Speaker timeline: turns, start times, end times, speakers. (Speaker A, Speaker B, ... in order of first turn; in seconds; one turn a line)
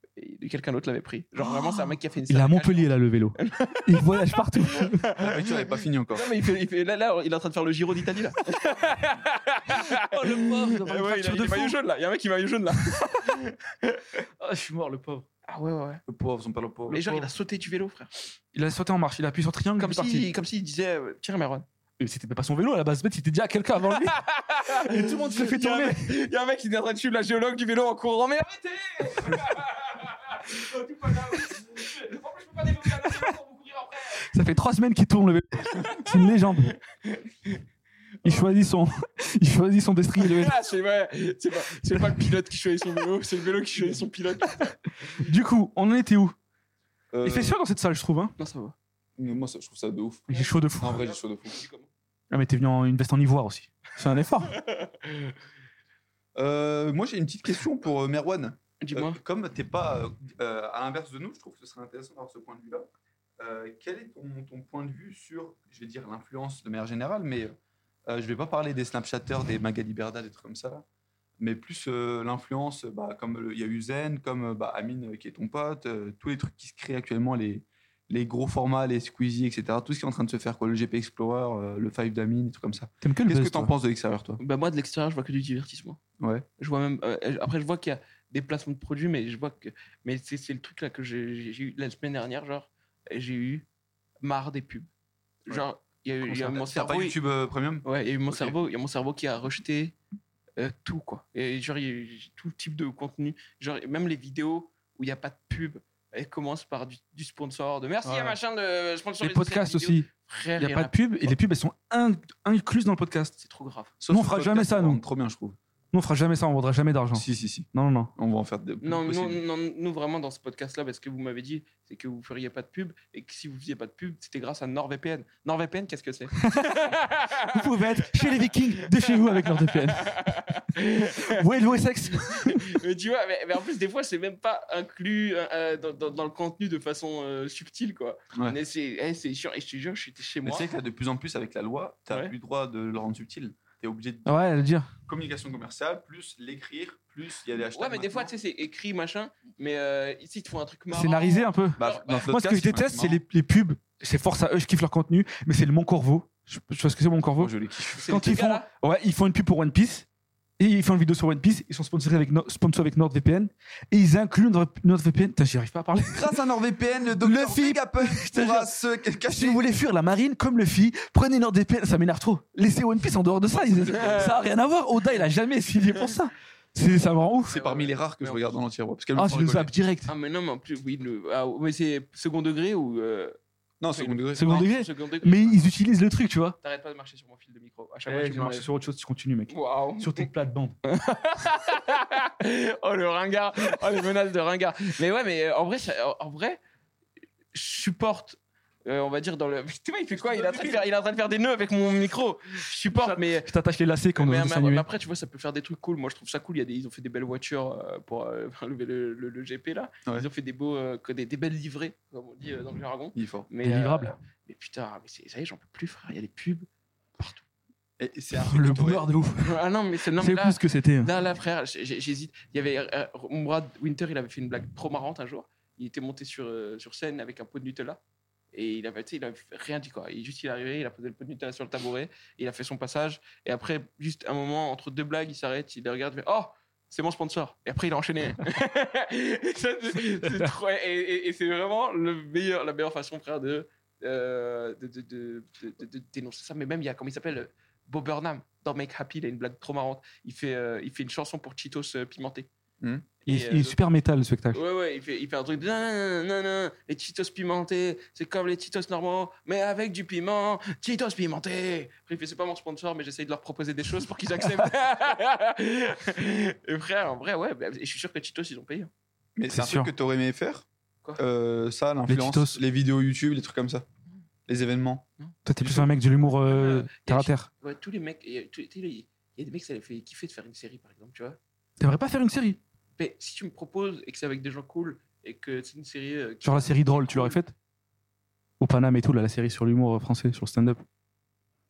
Speaker A: 0.1-14.2
Speaker B: 1.4-5.0
Speaker C: 5.2-6.3
Speaker B: 9.7-11.8
Speaker B: 14.4-15.2
Speaker A: 15.5-16.0
Speaker C: 16.1-17.0
Speaker A: 16.9-18.3
Speaker B: 16.9-17.3
Speaker B: 18.5-20.3
Speaker A: 19.8-21.6
Speaker B: 22.0-26.1
Speaker A: 24.0-34.3
Speaker B: 32.8-33.3
Speaker B: 34.2-36.8
Speaker A: 35.7-36.1
Speaker A: 36.9-37.6
Speaker A: 38.2-38.5
Speaker B: 38.2-40.5
Speaker A: 40.2-45.2
Speaker B: 45.1-46.3
Speaker C: 47.1-47.6
Speaker B: 47.2-48.3
Speaker A: 48.4-48.7
Speaker C: 49.2-51.6
Speaker B: 50.3-51.0
Speaker A: 50.3-51.9
Speaker B: 52.3-54.6
Speaker A: 54.5-55.3
Speaker C: 56.4-62.9
Speaker A: 58.8-59.2
Speaker C: 63.4-67.5
Speaker C: 68.1-70.8
Speaker C: 71.4-84.4
Speaker B: 83.0-83.7
Speaker A: 84.4-86.0
Speaker C: 86.2-86.4
Speaker A: 86.6-93.7
Speaker A: 94.2-94.9
Speaker A: 95.4-97.2
Speaker C: 96.4-98.5
Speaker A: 97.8-99.9
Speaker A: 100.6-111.3
Speaker B: 108.0-108.4
Speaker B: 109.2-113.3
Speaker A: 113.4-113.9
Speaker C: 114.0-115.6
Speaker B: 114.1-115.0
Speaker B: 115.9-118.1
Speaker C: 117.1-119.4
Speaker A: 118.8-131.4
Speaker B: 126.4-130.3
Speaker B: 131.2-132.8
Speaker A: 132.1-140.7
Speaker C: 140.4-144.4
Speaker A: 142.1-142.3
Speaker B: 144.2-144.9
Speaker C: 145.1-148.3
Speaker A: 147.7-152.3
Speaker B: 150.9-160.1
Speaker C: 151.8-153.2
Speaker C: 157.4-158.1
Speaker A: 157.9-158.7
Speaker B: 160.6-166.4
Speaker C: 166.1-169.6
Speaker B: 167.1-177.6
Speaker C: 173.6-174.3
Speaker A: 173.7-174.4
Speaker A: 177.5-178.6
Speaker C: 177.5-179.7
Speaker B: 179.2-180.1
Speaker A: 180.1-183.3
Speaker C: 183.8-184.7
Speaker A: 183.9-185.6
Speaker B: 184.3-186.6
Speaker A: 186.6-188.7
Speaker B: 188.1-190.7
Speaker A: 189.5-190.3
Speaker A: 190.8-196.6
Speaker A: 197.5-203.5
Speaker B: 200.2-200.8
Speaker B: 202.9-204.8
Speaker A: 204.2-216.7
Speaker C: 213.1-213.5
Speaker B: 213.6-214.1
Speaker A: 217.2-217.4
Speaker C: 218.0-219.1
Speaker B: 218.3-219.6
Speaker A: 219.4-228.0
Speaker B: 220.1-221.1
Speaker A: 228.5-252.5
Speaker B: 240.2-240.5
Speaker C: 252.8-253.1
Speaker A: 253.2-253.8
Speaker B: 253.3-254.6
Speaker A: 254.5-268.9
Speaker C: 269.4-270.6
Speaker B: 269.5-269.9
Speaker C: 271.2-273.8
Speaker B: 272.1-272.6
Speaker C: 274.5-275.1
Speaker A: 275.2-281.4
Speaker B: 275.4-277.5
Speaker B: 281.8-282.6
Speaker A: 283.0-287.4
Speaker B: 286.4-287.5
Speaker B: 288.6-290.8